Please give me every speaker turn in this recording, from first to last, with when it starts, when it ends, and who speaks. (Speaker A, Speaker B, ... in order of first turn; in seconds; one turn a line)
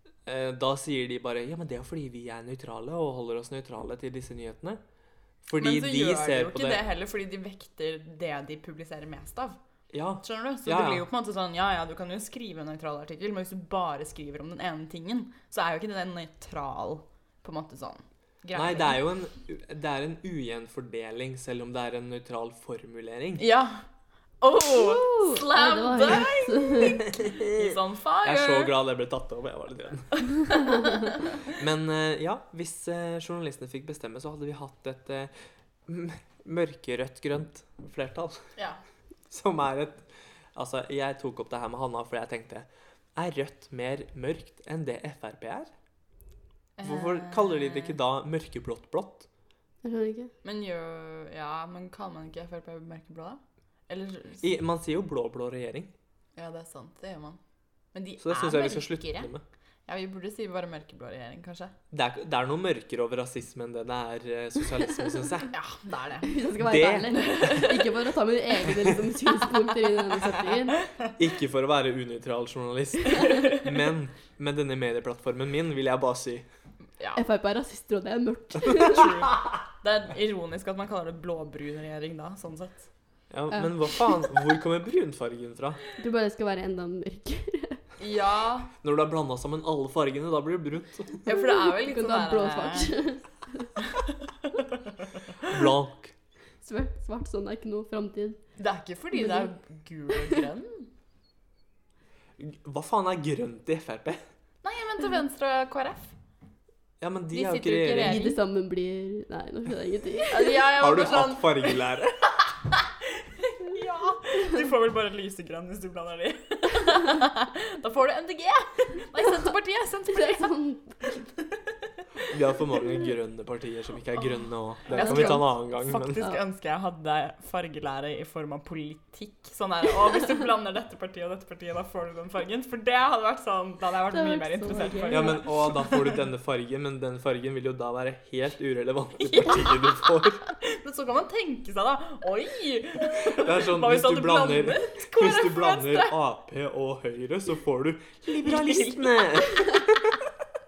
Speaker A: 0.2-4.8
Speaker A: 5.4-6.8
Speaker B: 5.6-9.6
Speaker A: 9.9-11.0
Speaker B: 10.2-19.0
Speaker A: 18.5-23.4
Speaker B: 23.4-23.9
Speaker B: 24.4-28.7
Speaker C: 24.8-27.0
Speaker A: 27.1-30.3
Speaker B: 30.4-31.1
Speaker A: 31.5-35.3
Speaker A: 35.9-38.5
Speaker B: 38.6-38.8
Speaker A: 39.3-45.7
Speaker B: 46.8-48.0
Speaker A: 46.8-49.3
Speaker C: 49.8-50.3
Speaker B: 50.4-54.4
Speaker A: 54.4-55.9
Speaker B: 56.4-57.4
Speaker B: 57.9-59.3
Speaker A: 58.2-59.4
Speaker B: 59.9-61.8
Speaker A: 61.9-65.5
Speaker B: 65.5-66.4
Speaker C: 66.3-70.8
Speaker A: 66.6-67.6
Speaker B: 67.2-67.8
Speaker A: 71.2-76.5
Speaker C: 77.2-79.1
Speaker B: 78.9-82.9
Speaker A: 83.3-85.8
Speaker C: 83.5-84.2
Speaker C: 86.0-87.8
Speaker B: 88.0-88.7
Speaker A: 88.8-91.3
Speaker B: 91.3-93.0
Speaker C: 91.3-93.7
Speaker A: 95.5-96.1
Speaker C: 96.6-98.5
Speaker B: 98.6-100.9
Speaker C: 99.2-99.5
Speaker A: 102.4-104.2
Speaker B: 104.6-106.2
Speaker A: 107.0-108.2
Speaker B: 107.3-108.4
Speaker C: 108.0-110.5
Speaker B: 110.3-111.8
Speaker A: 110.8-112.2
Speaker B: 112.5-120.6
Speaker C: 120.2-121.1
Speaker A: 122.3-126.3
Speaker B: 124.9-136.1
Speaker C: 124.9-125.6
Speaker C: 134.1-135.5
Speaker A: 135.1-140.4
Speaker B: 139.2-146.2
Speaker A: 143.3-150.2
Speaker B: 148.4-149.7